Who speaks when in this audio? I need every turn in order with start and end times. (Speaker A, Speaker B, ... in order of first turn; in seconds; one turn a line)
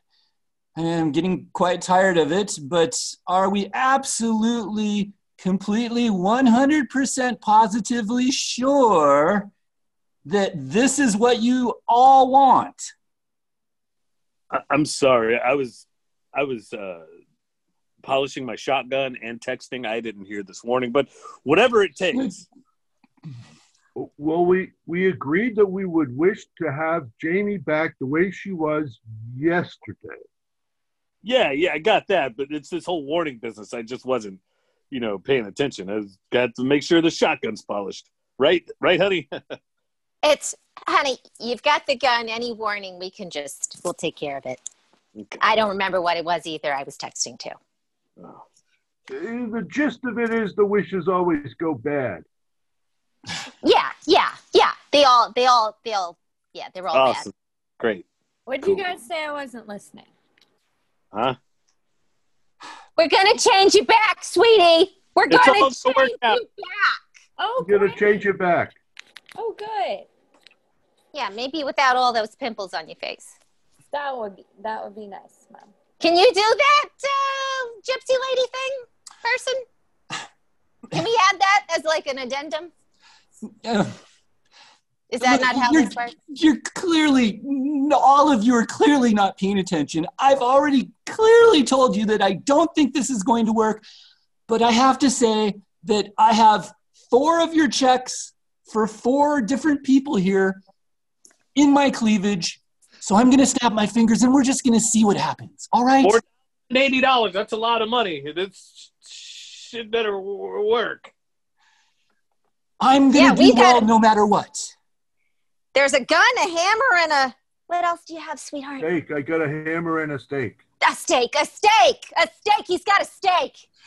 Speaker A: 0.8-9.5
Speaker A: 10.2-12.9
Speaker B: 14.5-17.1
Speaker B: 18.0-22.4
Speaker A: 22.1-22.4
Speaker C: 24.0-30.2
Speaker B: 31.2-39.6
Speaker D: 40.2-44.6
Speaker B: 45.2-45.4
Speaker D: 45.4-47.6
Speaker B: 48.2-48.5
Speaker C: 49.1-52.2
Speaker D: 53.6-57.3
Speaker B: 56.9-58.1
Speaker E: 58.5-60.1
Speaker B: 61.1-61.4
Speaker D: 63.0-67.0
Speaker B: 65.3-66.4
Speaker E: 67.4-68.1
Speaker C: 67.6-68.8
Speaker E: 69.4-70.1
Speaker D: 71.1-73.3
Speaker E: 73.9-75.7
Speaker D: 76.0-79.7
Speaker D: 80.9-82.7
Speaker A: 83.6-84.0
Speaker D: 85.1-86.2
Speaker A: 85.2-93.8
Speaker A: 94.5-100.6
Speaker A: 101.5-106.2
Speaker B: 106.0-111.1
Speaker A: 112.8-114.7
Speaker D: 113.1-113.9
Speaker D: 115.7-118.9
Speaker C: 118.8-120.6
Speaker D: 120.8-123.6